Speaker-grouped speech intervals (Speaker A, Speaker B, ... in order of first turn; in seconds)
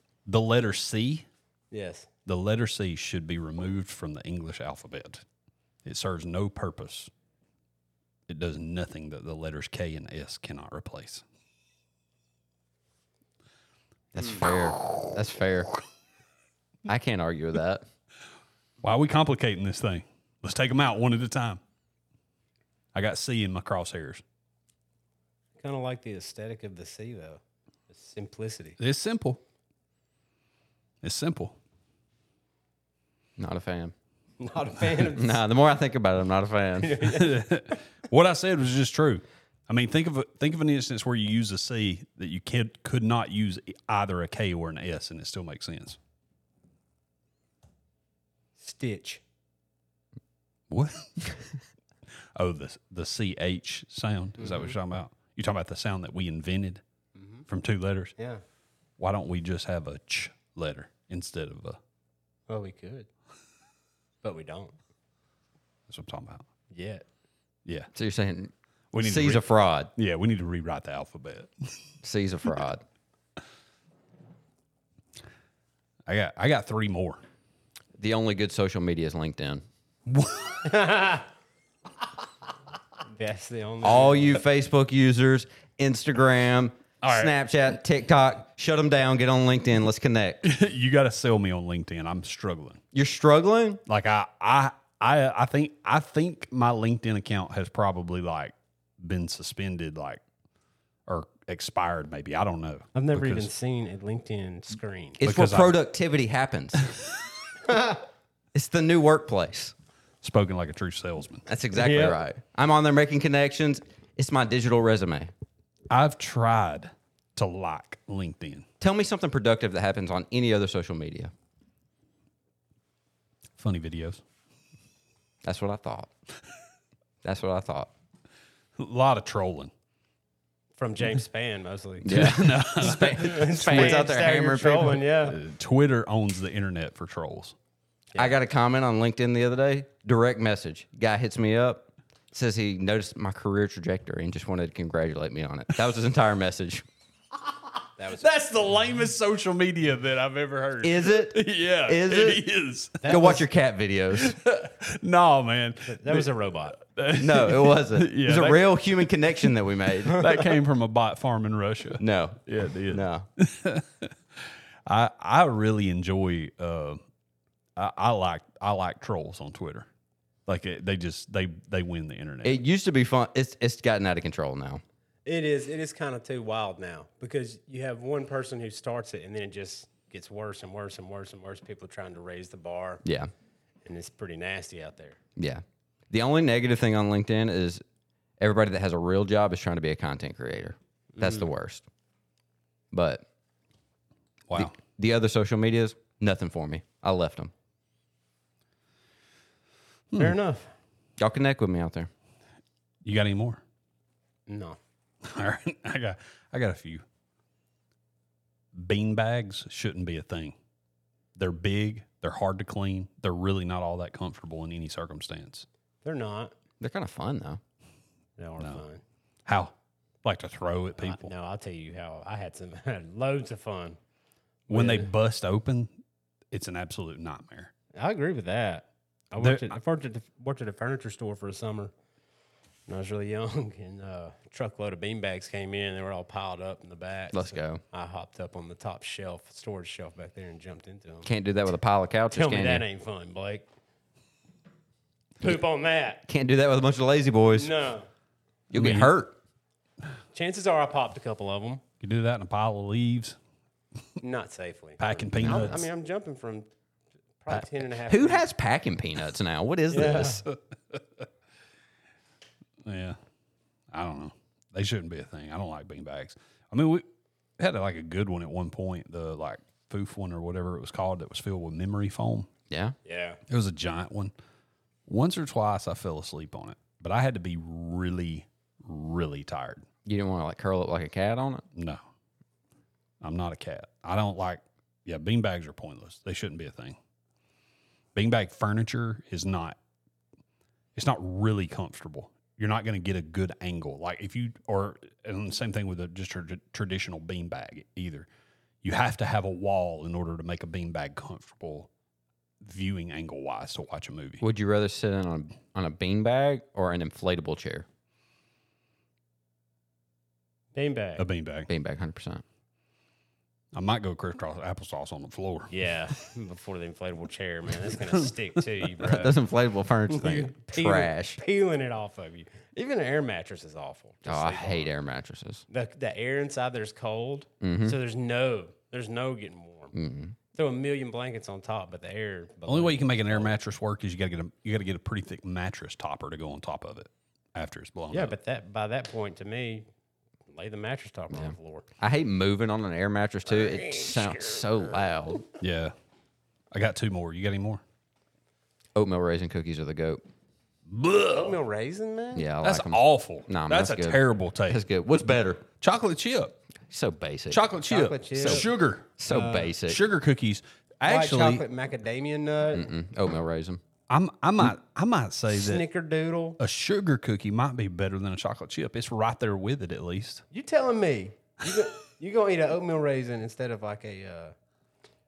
Speaker A: 0.3-1.3, 2.3-5.2, 5.8-7.1, 8.3-11.2, 18.8-21.6, 22.9-24.2, 28.8-29.4, 31.0-31.6, 37.0-46.0, 50.7-51.4, 52.4-56.8, 57.5-58.1, 59.0-61.8, 65.9-66.4, 68.9-69.4, 69.9-71.8, 76.1-77.2, 80.1-80.7, 87.0-87.3, 90.4-92.8, 93.9-100.2, 101.1-103.5, 105.2-105.8, 110.2-111.5, 115.9-118.7, 123.6-124.2, 128.8-129.7, 132.0-134.0, 135.2-137.6, 148.1-153.2, 154.1-158.7, 160.1-167.0, 167.8-169.9, 170.5-172.6, 194.5-194.7, 203.0-203.6, 205.2-207.0, 208.7-210.6, 211.4-215.7, 219.4-219.7, 220.2-221.3, 224.7-225.9, 226.5-227.7, 229.4-229.7, 248.7-249.1, 252.0-253.4, 255.0-255.8, 260.9-261.2, 262.8-263.1, 263.9-267.1, 267.6-272.5, 273.5-274.3, 275.1-279.9, 281.8-282.0, 283.2-287.0, 288.1-289.8, 290.9-298.3, 298.8-301.9, 302.6-304.4, 311.2-311.7, 313.7-315.7, 332.7-338.4, 345.6-345.9, 346.7-347.8, 350.9-351.6, 352.6-354.8, 355.8-356.6, 357.5-359.1, 359.8-361.6, 364.1-365.9, 366.6-370.4
Speaker B: 1.7-2.1, 25.6-28.8, 34.4-35.4, 36.8-37.4, 48.6-49.2, 54.4-54.8, 57.1-57.4, 58.2-58.4, 62.5-63.1, 64.2-64.8, 66.7-67.1, 80.6-81.3, 83.1-84.4, 102.9-105.2, 107.7-108.0, 111.7-112.2, 130.8-135.4, 148.0-148.2, 153.0-153.4, 155.9-156.8, 175.3-183.0, 183.8-185.2, 191.2-191.4, 200.2-200.7, 204.5-204.8, 216.0-216.5, 218.4-219.0, 221.0-224.0, 224.7-225.1, 227.9-231.9, 232.9-241.3, 242.3-243.7, 245.4-246.2, 247.6-248.1, 250.3-251.8, 254.2-256.7, 257.4-258.4, 259.9-260.4, 273.1-273.4, 310.7-311.2, 315.7-319.4, 320.1-324.9, 325.7-329.9, 330.5-333.6, 338.1-339.9, 340.5-341.9, 343.6-344.6, 351.3-352.4, 357.9-358.7, 359.3-359.7, 361.1-362.9, 365.5-366.6, 370.5-374.5
Speaker C: 14.1-15.7, 16.9-17.8, 33.4-33.9, 35.1-37.1, 67.9-69.9, 72.0-72.8, 78.0-79.6, 83.8-90.4, 92.9-93.8, 105.2-106.9, 108.5-109.7, 111.5-115.3, 118.8-121.3, 125.4-126.1, 127.2-127.9, 132.0-135.0, 138.2-146.8, 150.8-152.4, 153.1-154.4, 157.2-160.4, 162.0-163.3, 172.4-174.8, 183.0-183.3, 185.4-187.8, 188.4-191.8, 192.9-193.2, 194.6-197.5, 201.2-202.1, 216.8-217.6, 237.3-237.8, 241.2-242.8, 246.3-247.7, 248.7-249.3, 255.4-255.7, 257.5-260.4, 272.7-272.9, 280.1-281.6, 304.4-307.9, 311.7-312.4, 319.0-321.4, 324.3-325.6, 327.6-327.9, 329.9-330.4, 341.3-345.4, 348.9-350.2, 352.4-355.6, 356.9-357.6, 358.4-358.6, 359.2-360.0, 362.7-363.8